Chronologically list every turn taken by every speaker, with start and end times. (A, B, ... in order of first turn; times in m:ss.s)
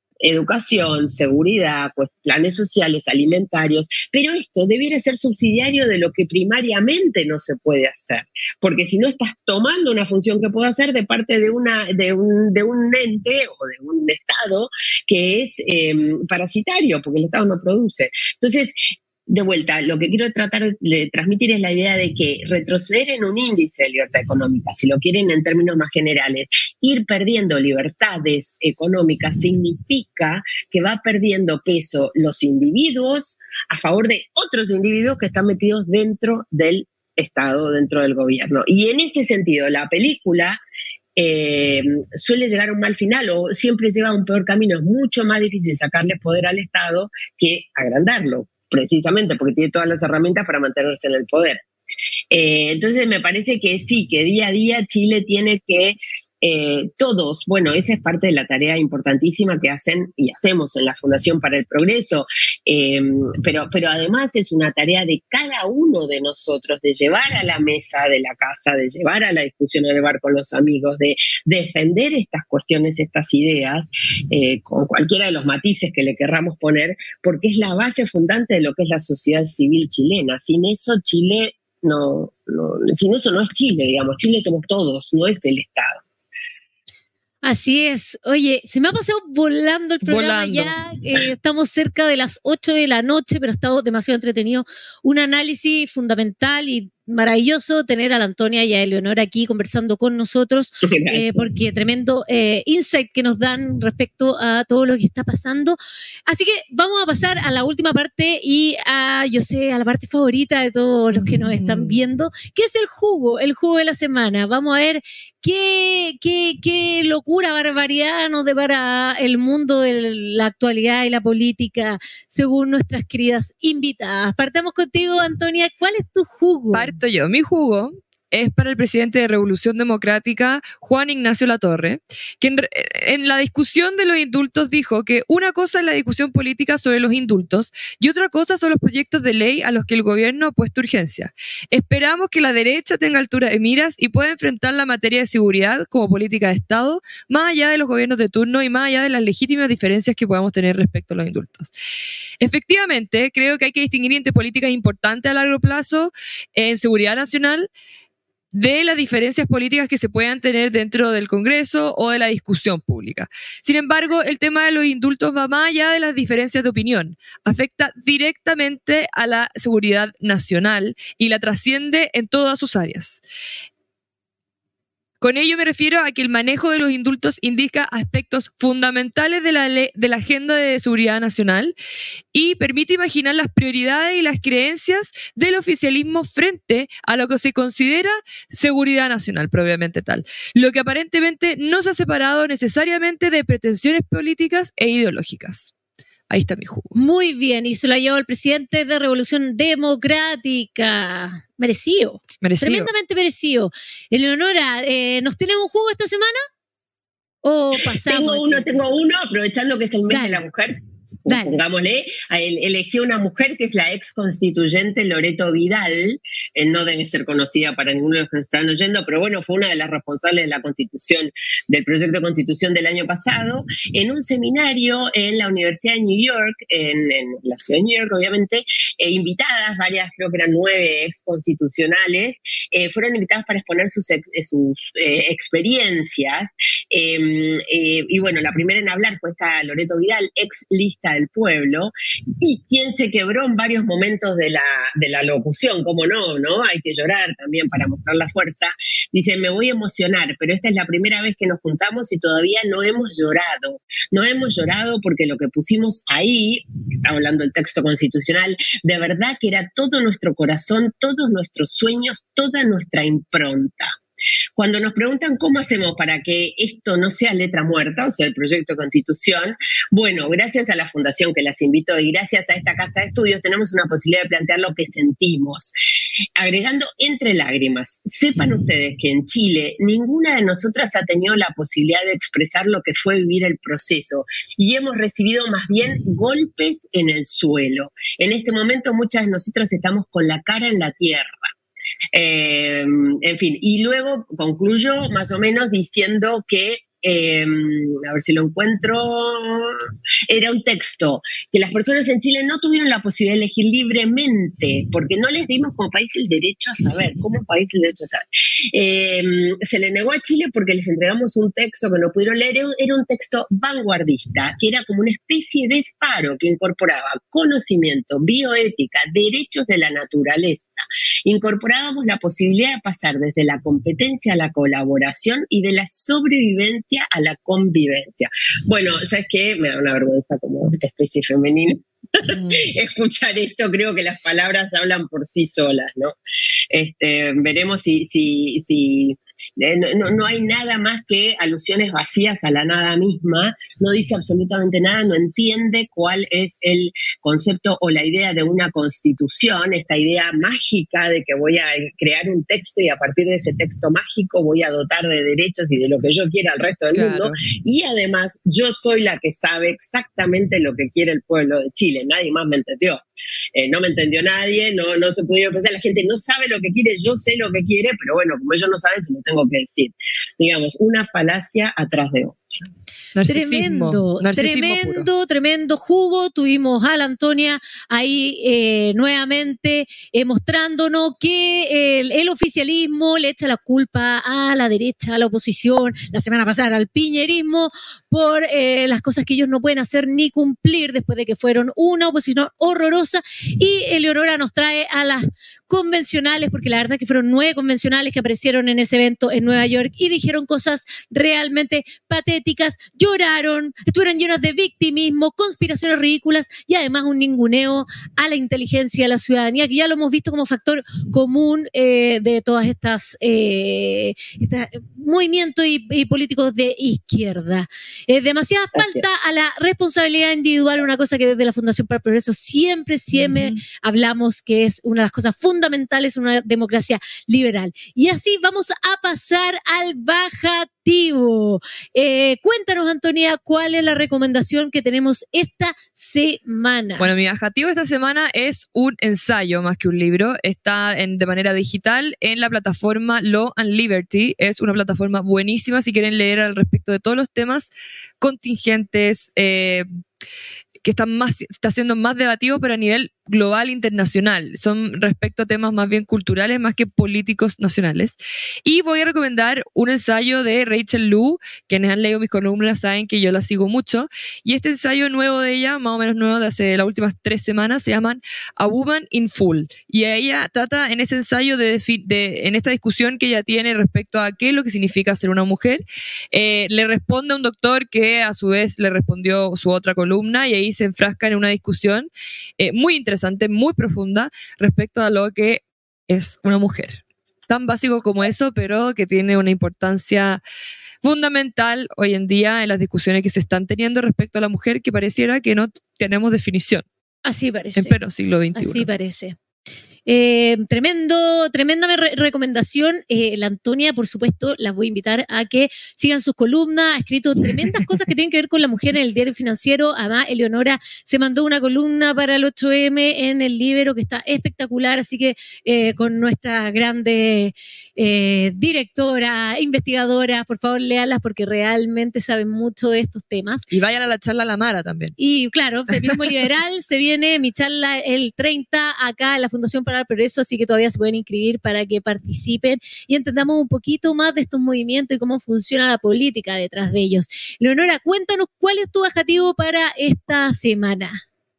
0:00.2-0:18.8 A
0:19.3-0:40.6 A
0:41.2-0:51.6 A
0:52.3-1:26.0 A
1:27.4-1:45.8 B
1:30.0-1:30.7 C
1:40.8-1:41.5 A
1:46.3-2:06.9 B
1:51.1-1:52.0 C
2:06.7-2:31.7 C
2:32.4-2:37.7 C
2:38.5-2:53.2 C
2:55.2-3:01.7 C
3:02.3-3:15.7 C
3:16.3-3:17.0 C
3:17.0-3:26.4 B
3:22.4-3:22.9 C
3:27.4-3:28.7 B
3:28.1-4:24.0 A
3:30.1-3:30.4 B
3:31.3-3:31.5 B
4:24.6-4:35.7 A
4:36.4-4:51.5 A
4:52.1-5:36.2 A
5:32.3-5:32.6 C
5:36.7-6:03.0 A
5:56.9-5:57.4 C
6:03.6-6:12.4 A
6:13.2-6:15.1 C
6:13.3-7:17.1 B
7:03.1-7:03.6 C
7:17.0-7:27.7 C
7:28.2-7:29.9 C
7:30.8-8:10.4 C
8:11.0-8:16.8 C
8:17.2-8:18.0 B
8:17.8-8:18.9 C
8:18.6-8:19.4 B
8:20.1-8:43.6 B
8:43.7-8:45.2 C
8:45.2-9:01.2 B